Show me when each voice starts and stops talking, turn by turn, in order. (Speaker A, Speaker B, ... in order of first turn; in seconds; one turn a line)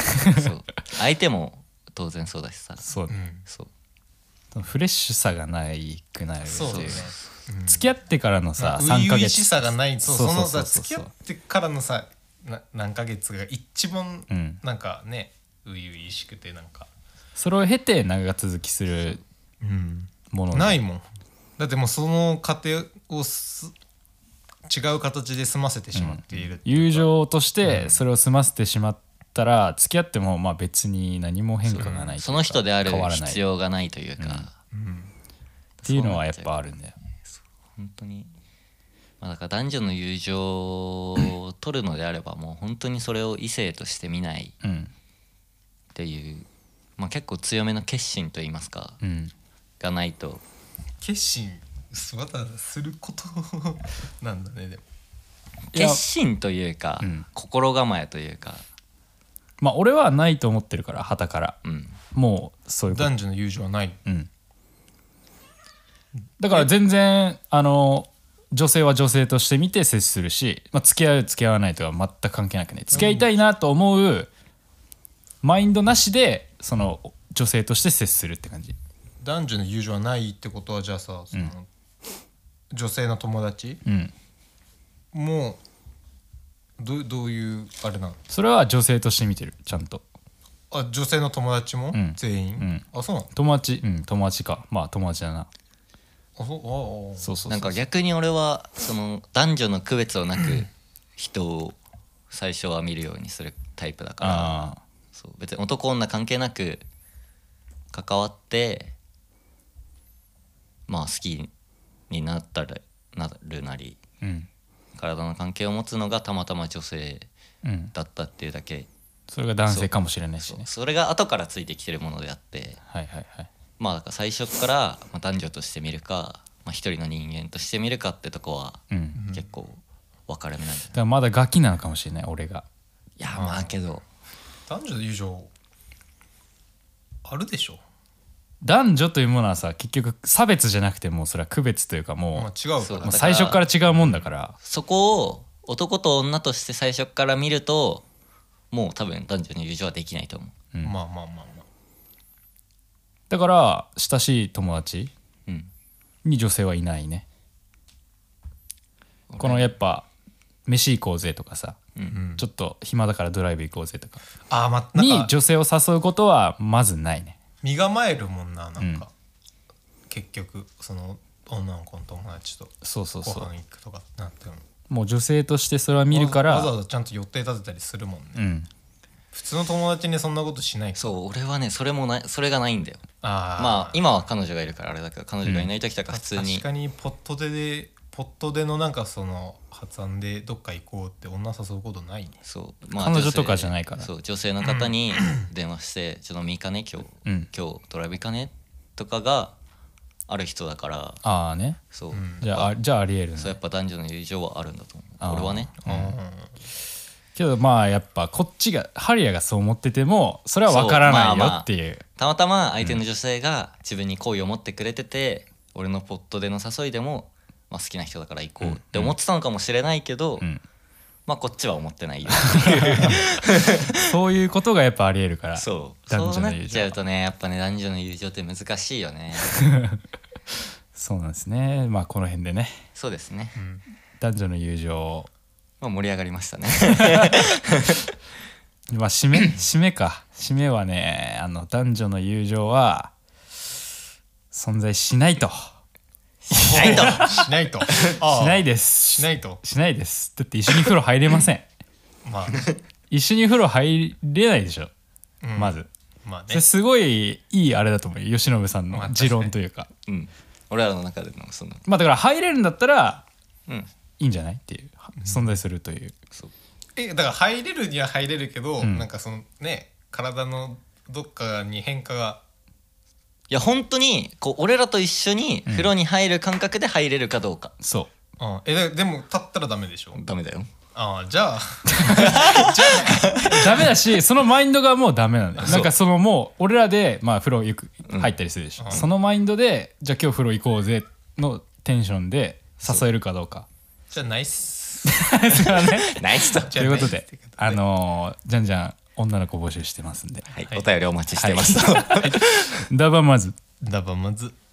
Speaker A: 0.1-0.5
Speaker B: 0.3-2.8
Speaker A: 2.8-3.1
Speaker C: 3.1-3.5
Speaker A: 4.5-7.1
Speaker C: 6.5-7.9
Speaker B: 6.6-7.2
Speaker A: 7.7-11.1
Speaker C: 8.6-16.9
Speaker A: 14.3-14.6
Speaker A: 17.4-19.2
Speaker C: 19.6-21.1
Speaker A: 20.3-20.8
Speaker C: 21.6-23.7
Speaker C: 24.7-27.1
Speaker A: 25.9-33.4
Speaker C: 27.6-28.0
Speaker B: 31.6-34.5
Speaker C: 31.8-32.2
Speaker A: 34.2-34.5
Speaker C: 34.7-35.1
Speaker B: 35.8-36.7
Speaker A: 35.9-37.0
Speaker B: 37.3-38.3
Speaker B: 39.2-44.5
Speaker A: 44.6-44.9
Speaker B: 46.0-49.0
Speaker A: 49.0-49.3
Speaker B: 49.8-50.4
Speaker C: 51.0-54.8
Speaker B: 55.7-58.6
Speaker A: 55.7-56.0
Speaker A: 57.0-57.3
Speaker A: 59.6-61.6
Speaker B: 61.6-62.0
Speaker A: 62.1-63.1
Speaker C: 62.9-64.0
Speaker A: 66.4-74.3
Speaker C: 72.9-73.3
Speaker A: 75.4-78.8
Speaker C: 79.2-81.7
Speaker C: 82.7-83.8
Speaker A: 83.8-84.1
Speaker C: 85.1-85.6
Speaker C: 86.8-88.2
Speaker A: 88.3-90.0
Speaker C: 90.7-93.3
Speaker A: 91.9-95.5
Speaker C: 96.4-97.4
Speaker A: 97.2-97.8
Speaker B: 97.5-101.8
Speaker B: 102.3-104.6
Speaker A: 104.2-104.8
Speaker B: 105.2-106.8
Speaker B: 107.9-109.0
Speaker B: 110.9-111.5
Speaker B: 112.1-114.0
Speaker A: 114.2-114.5
Speaker B: 115.0-117.3
Speaker A: 117.6-117.9
Speaker B: 117.9-118.9
Speaker A: 119.3-120.7
Speaker B: 119.7-122.8
Speaker A: 122.9-123.5
Speaker B: 123.8-131.0
Speaker A: 128.9-129.2
Speaker C: 129.1-129.5
Speaker A: 130.9-132.7
Speaker B: 133.2-134.0
Speaker C: 133.3-133.8
Speaker C: 134.7-135.5
Speaker C: 137.2-137.8
Speaker A: 138.6-142.5
Speaker C: 142.3-144.3
Speaker B: 142.8-143.6
Speaker A: 143.0-144.6
Speaker B: 144.6-148.0
Speaker B: 148.7-150.5
Speaker C: 150.8-151.7
Speaker A: 153.3-155.1
Speaker A: 156.2-157.2
Speaker B: 159.3-159.7
Speaker A: 159.4-160.1
Speaker A: 160.7-161.8
Speaker C: 162.1-162.4
Speaker A: 162.4-164.2
Speaker C: 164.5-165.3
Speaker A: 165.0-167.4
Speaker C: 167.6-169.1
Speaker A: 168.8-169.1
Speaker C: 170.1-174.7
Speaker A: 172.8-173.5
Speaker A: 174.9-176.7
Speaker C: 176.1-178.5
Speaker A: 178.4-178.7
Speaker C: 179.3-181.2
Speaker B: 181.0-186.7
Speaker C: 183.2-184.0
Speaker A: 185.4-185.7
Speaker C: 186.1-192.4
Speaker B: 192.4-199.6
Speaker A: 192.9-194.1
Speaker C: 194.6-195.5
Speaker B: 200.3-201.2
Speaker A: 201.2-201.8
Speaker B: 201.9-202.7
Speaker C: 202.1-202.5
Speaker A: 202.4-203.6
Speaker B: 203.4-205.8
Speaker A: 205.2-206.2
Speaker C: 205.8-206.5
Speaker A: 207.4-212.0
Speaker B: 210.7-220.5
Speaker A: 218.6-219.2
Speaker B: 221.3-223.9
Speaker A: 222.5-223.3
Speaker A: 223.9-227.0
Speaker B: 225.6-229.7
Speaker A: 229.5-230.0
Speaker A: 230.9-232.8
Speaker B: 233.0-233.6
Speaker C: 233.6-233.8
Speaker A: 234.2-235.3
Speaker B: 235.8-238.0
Speaker A: 237.1-237.3
Speaker A: 238.9-243.1
Speaker A: 244.5-245.8
Speaker B: 246.4-248.2
Speaker C: 246.6-249.6
Speaker A: 246.6-247.3
Speaker A: 248.2-251.7
Speaker C: 252.2-252.6
Speaker A: 253.1-254.9
Speaker C: 255.4-256.7
Speaker A: 255.6-255.9
Speaker A: 256.5-259.9
Speaker C: 258.9-259.5
Speaker B: 260.1-261.9
Speaker A: 261.9-263.2
Speaker A: 264.2-266.1
Speaker C: 267.0-272.4
Speaker A: 268.8-269.1
Speaker B: 273.5-277.7
Speaker A: 275.7-275.9
Speaker A: 277.8-278.1
Speaker C: 278.4-280.2
Speaker B: 280.1-280.7
Speaker C: 280.9-283.9
Speaker A: 282.1-282.3
Speaker B: 282.1-283.9
Speaker A: 283.5-293.7
Speaker B: 288.1-288.4
Speaker C: 288.8-289.1
Speaker C: 294.1-297.8
Speaker A: 295.1-300.5
Speaker B: 296.1-296.8
Speaker B: 300.5-302.8
Speaker A: 301.4-303.6
Speaker C: 303.8-304.6